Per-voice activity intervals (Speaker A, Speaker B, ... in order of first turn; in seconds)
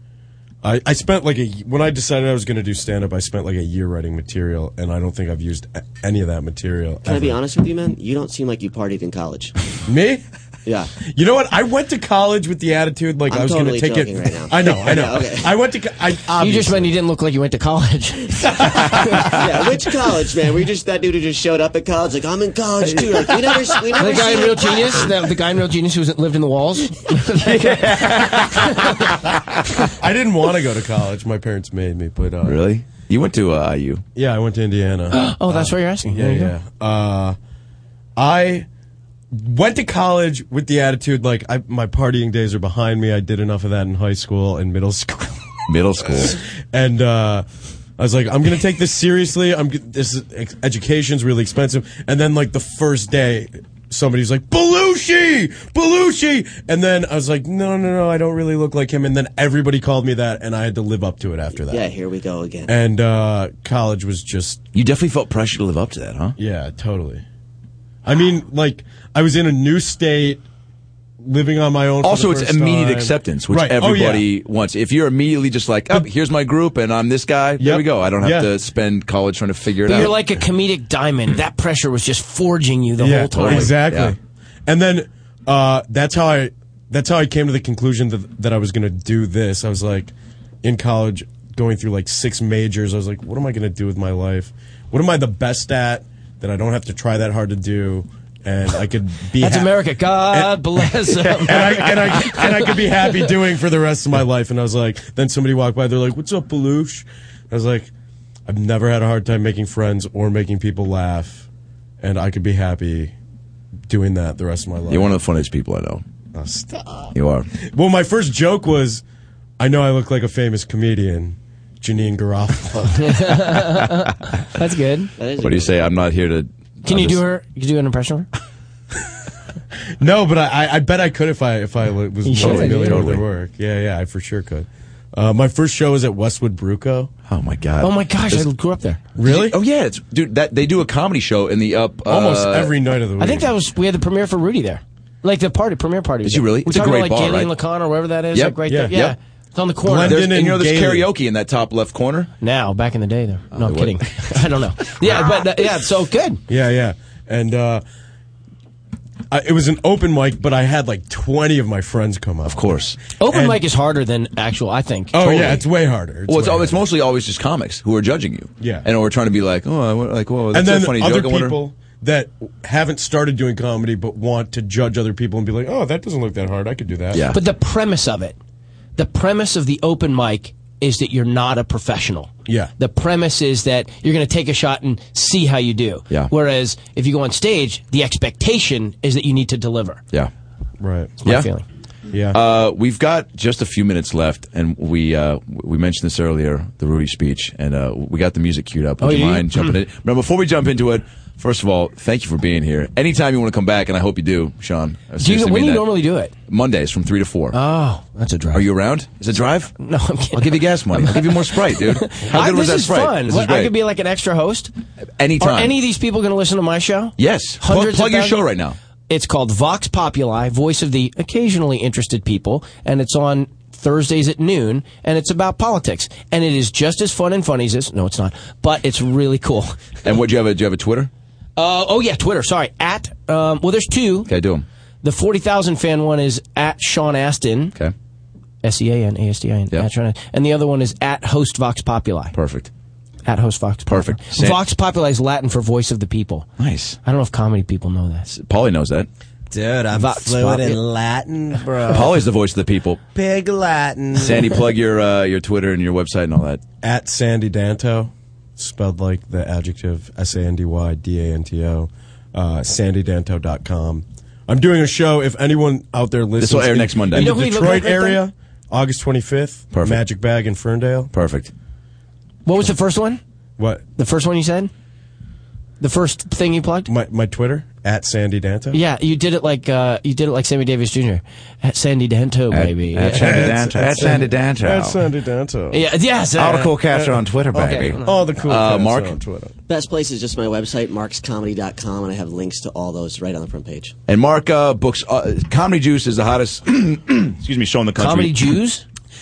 Speaker A: 0.6-7.4, 9.9-10.2, 11.0-16.9, 30.0-32.6, 34.1-37.4, 38.1-38.6, 39.3-47.5, 48.0-61.9, 62.7-64.6, 66.4-67.2, 68.0-70.4, 71.2-74.2, 77.6-78.5, 83.0-107.9, 108.5-111.5, 112.0-113.1, 113.9-115.2, 116.3-117.1, 117.7-119.0, 119.6-123.6, 130.0-137.1, 139.2-139.6, 142.1-143.5, 148.7-148.9, 149.8-151.1, 156.5-157.8, 159.3-163.6, 165.1-166.8, 168.6-168.8, 170.5-177.3, 182.5-182.7, 190.8-191.2, 192.1-192.4, 256.8-271.1, 273.6-273.8, 276.9-278.8, 283.1-285.9, 286.9-289.5
Speaker B: 7.0-9.5, 10.7-10.9, 13.3-15.6, 19.4-25.1, 61.7-62.7, 125.2-125.7, 289.7-293.9
Speaker C: 16.4-19.3, 24.0-29.0, 35.1-36.5, 79.8-83.7, 99.4-103.3, 123.0-125.1, 126.8-128.3, 132.2-133.1, 137.8-139.0, 143.2-150.2, 152.4-156.4, 163.2-165.6, 177.3-178.4, 179.0-190.0, 191.2-191.6, 199.0-199.8, 205.2-206.3, 207.5-208.7, 209.8-214.7, 215.4-218.4, 219.1-229.9, 231.6-234.3, 235.0-237.7, 238.6-242.3, 243.2-246.5, 247.0-248.3, 249.9-250.8, 267.1-268.2, 272.4-273.2, 273.9-274.7, 275.8-276.9, 278.7-283.5, 285.7-286.7, 287.5-288.2, 298.0-298.8
Speaker D: 23.0-23.3, 27.4-28.8, 32.4-34.0, 45.7-46.4, 64.7-66.3, 72.0-80.1, 83.4-84.1, 114.9-116.0, 117.1-117.5, 125.4-127.2, 132.3-133.2, 137.3-138.4, 139.2-142.8, 146.2-147.5, 148.3-149.1, 150.0-152.3, 153.6-155.3, 162.4-163.0, 166.3-171.6, 177.1-177.4, 192.3-207.6, 208.5-209.7, 210.3-213.7, 215.2-215.7, 217.2-218.8, 230.0-231.1, 234.3-234.7, 242.3-242.7, 243.9-244.6, 246.6-247.0, 248.3-249.1, 251.9-253.0, 254.2-256.6, 266.4-267.4, 269.7-270.0, 271.1-271.5, 282.5-285.0, 286.4-289.1, 294.1-298.5
Speaker E: 249.5-252.2, 253.1-254.7